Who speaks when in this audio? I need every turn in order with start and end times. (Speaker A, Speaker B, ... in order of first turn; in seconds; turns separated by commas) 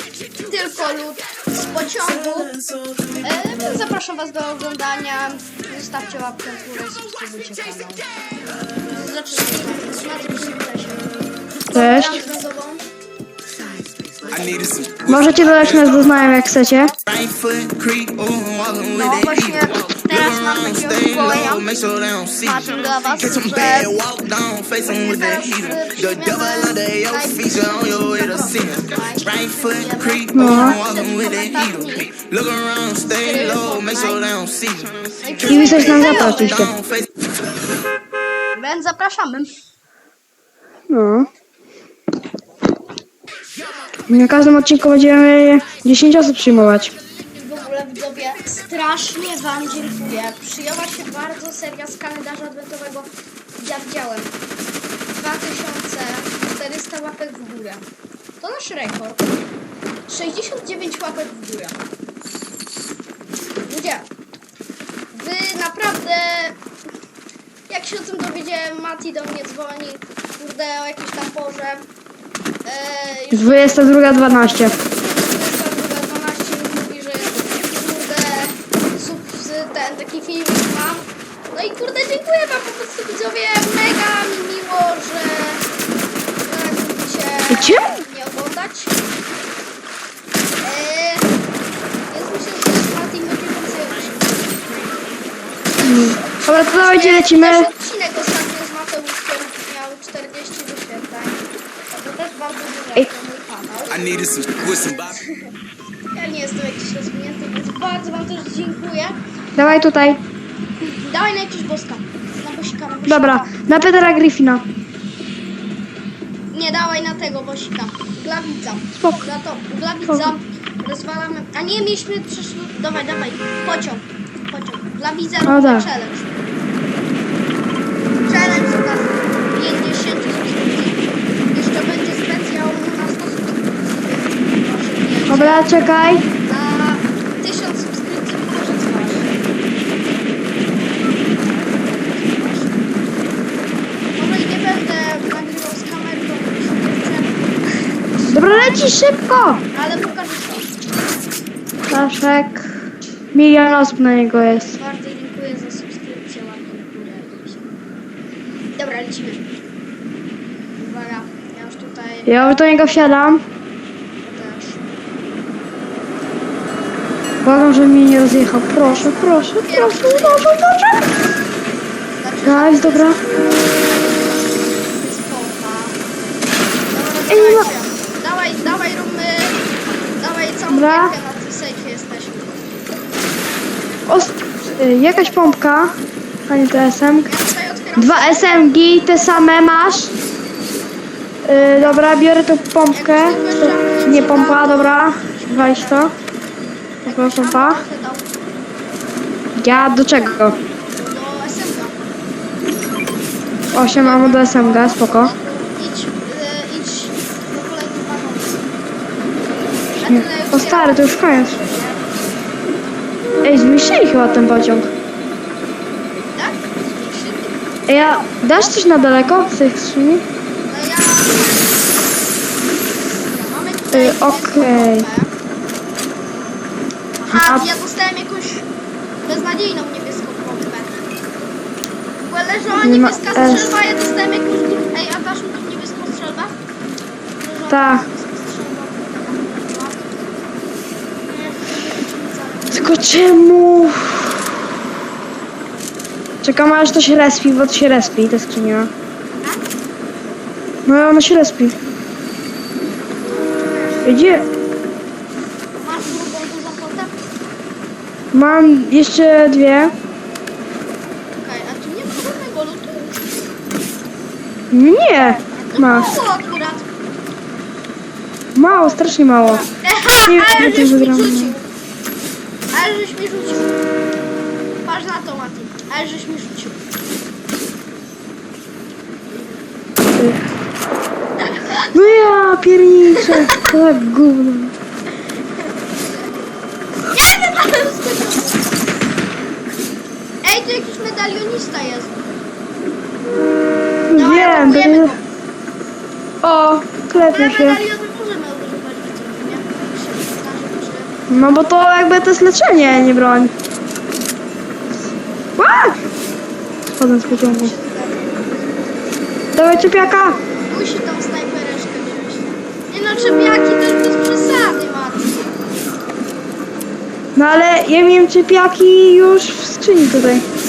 Speaker A: 0.5-2.5, Speaker A: 3.2-8.0, Speaker A: 8.9-11.1, Speaker A: 11.7-12.8, Speaker B: 11.7-12.2, Speaker C: 14.2-16.3, Speaker B: 15.1-16.9, Speaker C: 17.1-37.1, Speaker A: 18.9-21.6, Speaker A: 22.4-23.9, Speaker A: 24.9-32.1, Speaker B: 30.3-30.8, Speaker A: 33.1-34.4, Speaker A: 35.2-36.7, Speaker B: 35.5-36.7, Speaker A: 38.5-39.6, Speaker B: 40.9-41.3, Speaker B: 44.1-47.0, Speaker A: 47.4-54.3, Speaker A: 55.1-57.9, Speaker A: 58.4-59.2, Speaker A: 60.1-61.8, Speaker A: 63.6-64.1, Speaker A: 65.1-66.6, Speaker A: 67.7-71.9, Speaker A: 72.7-73.9, Speaker B: 73.3-74.8, Speaker A: 74.8-85.6, Speaker A: 86.5-89.0, Speaker B: 87.5-88.0, Speaker A: 90.6-91.3, Speaker A: 92.1-95.7, Speaker B: 95.8-97.7, Speaker A: 96.4-104.2, Speaker C: 103.9-105.2, Speaker A: 105.1-105.5, Speaker A: 106.1-109.2, Speaker B: 109.6-110.2, Speaker A: 110.8-113.5, Speaker B: 113.1-114.6, Speaker A: 116.5-126.4, Speaker B: 119.0-119.2, Speaker B: 120.1-120.3, Speaker B: 125.5-125.9, Speaker A: 128.2-135.7, Speaker B: 135.3-136.2, Speaker A: 136.3-139.4, Speaker A: 141.2-142.9, Speaker A: 144.2-147.5, Speaker B: 148.3-149.6, Speaker A: 149.7-150.7, Speaker B: 151.9-152.7, Speaker B: 153.3-154.8, Speaker A: 154.4-157.7, Speaker A: 158.7-159.5, Speaker A: 160.8-162.7, Speaker B: 162.3-163.4, Speaker A: 164.2-164.8, Speaker B: 167.4-171.1, Speaker A: 168.8-170.4, Speaker A: 172.2-176.0, Speaker B: 172.4-173.2, Speaker A: 176.9-179.6, Speaker B: 177.3-177.7, Speaker A: 180.2-182.6, Speaker B: 180.7-181.1, Speaker B: 184.1-186.0, Speaker B: 186.5-187.3, Speaker A: 187.2-188.7, Speaker B: 188.0-190.1, Speaker B: 191.4-196.1, Speaker A: 191.5-196.1, Speaker A: 197.0-198.3, Speaker B: 197.1-197.8, Speaker B: 199.6-200.6, Speaker A: 200.9-202.0, Speaker A: 203.7-208.7, Speaker B: 203.7-205.3, Speaker A: 209.9-212.1, Speaker B: 210.1-211.6, Speaker B: 213.4-214.9, Speaker A: 216.3-218.3, Speaker B: 217.9-220.2, Speaker A: 220.7-222.1, Speaker A: 223.3-225.3, Speaker B: 223.9-225.1, Speaker A: 227.2-228.7, Speaker B: 227.3-227.7, Speaker A: 229.2-231.0, Speaker A: 232.2-236.6, Speaker B: 232.8-233.8, Speaker A: 237.4-240.0, Speaker B: 237.7-238.0, Speaker A: 241.3-243.0, Speaker B: 242.7-244.3, Speaker B: 246.4-248.9, Speaker A: 249.4-249.7, Speaker B: 250.8-251.8, Speaker A: 253.2-254.6, Speaker B: 254.1-254.4, Speaker A: 255.8-257.1, Speaker B: 258.3-259.9, Speaker A: 261.4-263.4, Speaker B: 264.7-266.1, Speaker A: 265.4-266.9, Speaker B: 268.5-269.6, Speaker A: 269.4-271.7, Speaker B: 270.3-271.5, Speaker A: 272.7-273.8, Speaker A: 274.9-276.8, Speaker A: 279.3-279.6, Speaker A: 281.4-282.2, Speaker B: 281.9-284.8, Speaker A: 283.2-283.7, Speaker A: 287.1-288.6, Speaker A: 290.4-292.2, Speaker B: 294.1-295.1, Speaker A: 294.1-295.2, Speaker B: 296.4-297.8, Speaker A: 297.1-301.1, Speaker B: 301.3-303.5, Speaker B: 305.6-306.0, Speaker B: 306.9-307.7, Speaker A: 307.2-308.9, Speaker B: 309.6-310.4, Speaker A: 309.7-315.5, Speaker B: 317.4-320.5